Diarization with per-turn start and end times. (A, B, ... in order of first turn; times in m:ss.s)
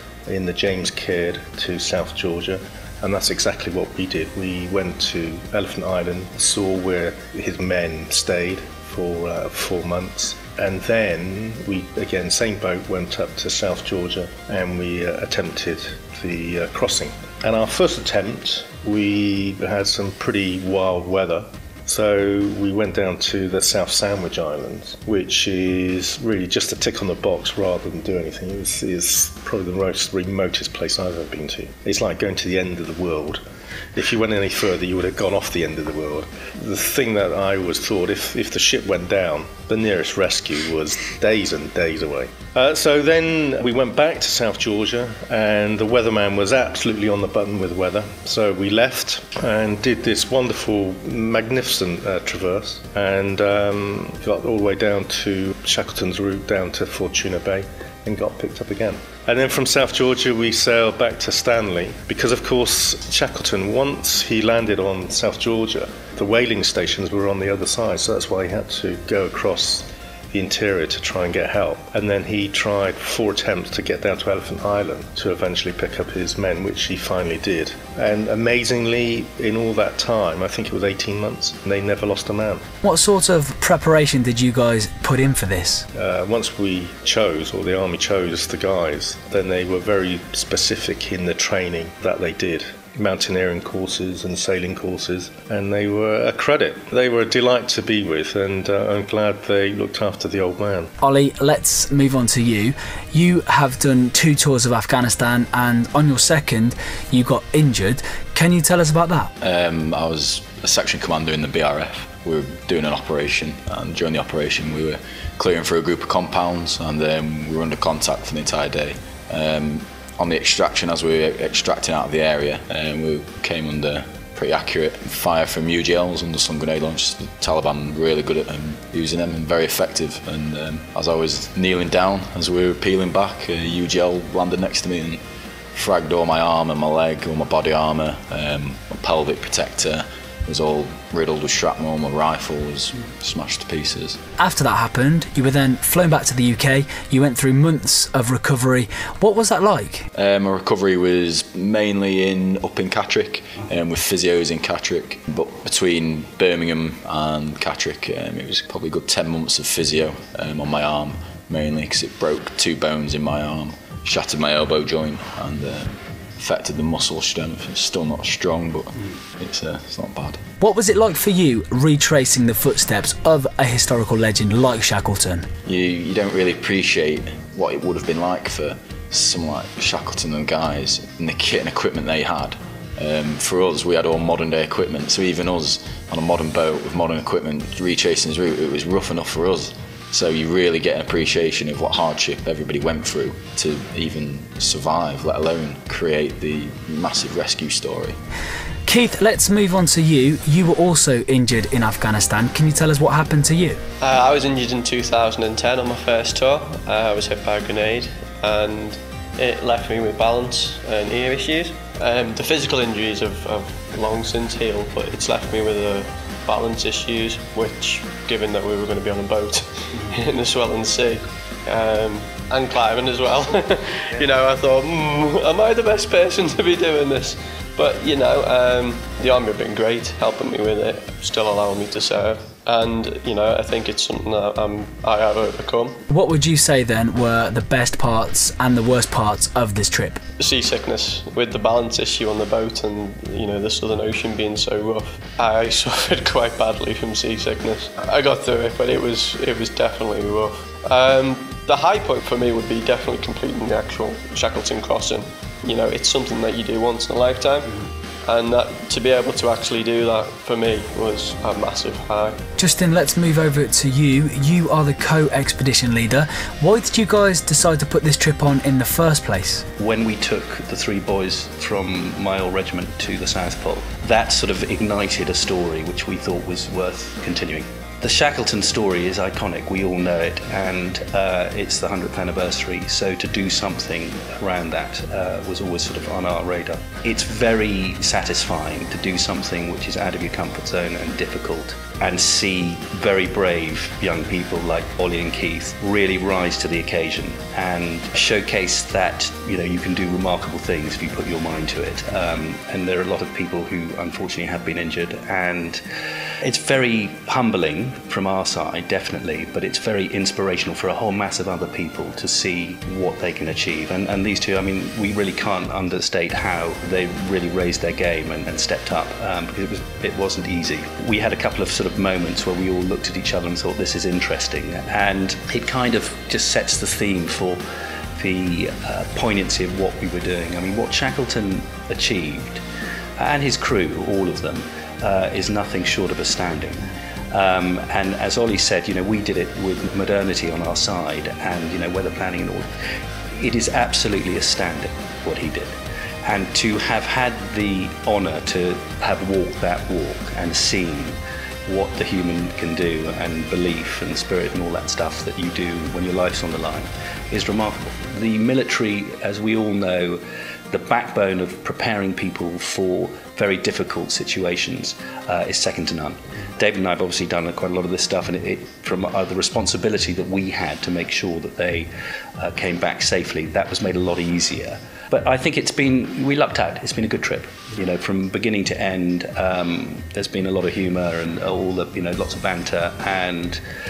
0:00.3-0:33.4 A
0:33.9-1:22.6 A
1:22.8-1:25.8 B
1:25.9-1:40.9 A
1:41.0-1:49.3 B
1:49.4-2:15.2 C
2:15.7-2:24.2 C
2:24.4-2:30.0 B
2:30.1-2:50.4 C
2:50.6-2:55.5 B
2:55.6-3:18.2 C
3:18.8-3:23.8 B
3:24.0-3:56.0 D
3:56.1-4:00.2 B
4:00.4-4:22.4 D
4:22.6-4:29.6 B
4:29.8-5:05.8 E
5:06.4-5:27.6 E
5:28.2-5:32.6 E
5:33.2-5:42.7 E
5:43.3-6:00.2 E
6:00.7-6:23.6 E